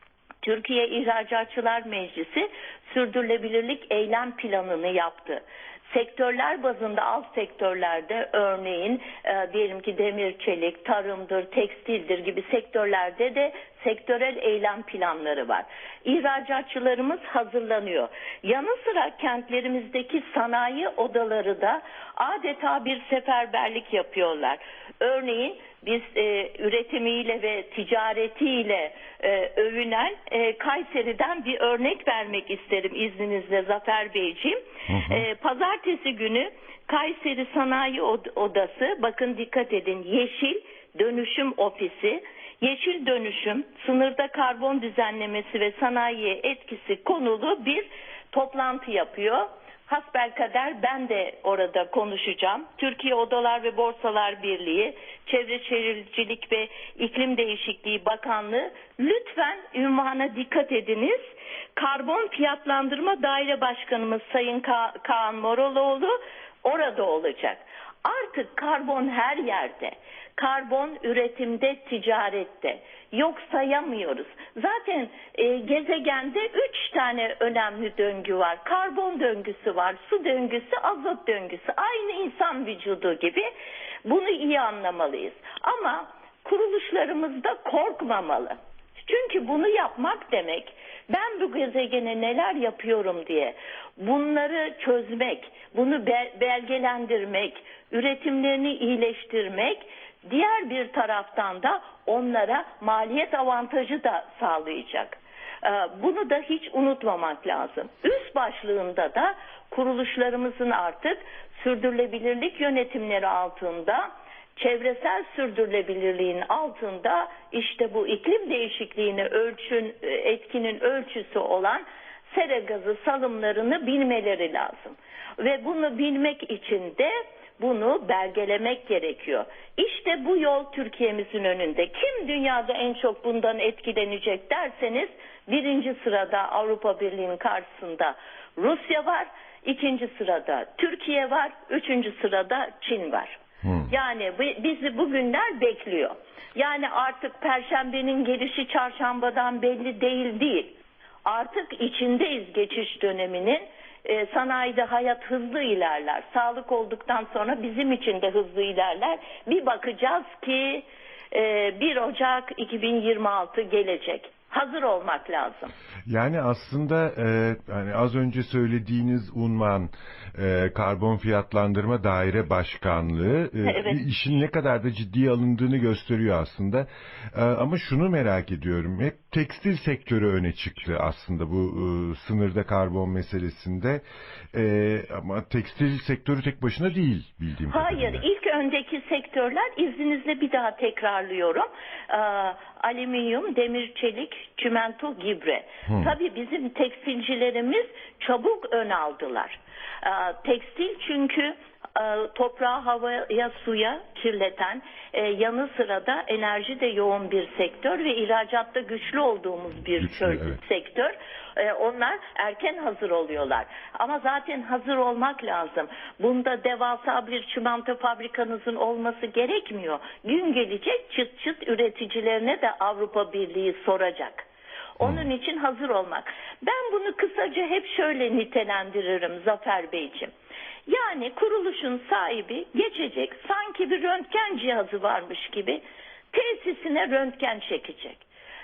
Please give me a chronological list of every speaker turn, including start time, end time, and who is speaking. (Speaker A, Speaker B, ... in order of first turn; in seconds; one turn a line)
Speaker A: 0.4-83.5
Speaker B: 34.9-35.2
Speaker A: 84.0-165.7
Speaker B: 143.6-143.9
Speaker B: 166.1-188.2
Speaker A: 173.6-174.0
Speaker A: 187.7-224.4
Speaker B: 195.8-196.1
Speaker B: 210.0-210.6
Speaker A: 225.0-230.3
Speaker B: 225.0-225.3
Speaker A: 230.9-235.8
Speaker A: 236.3-238.2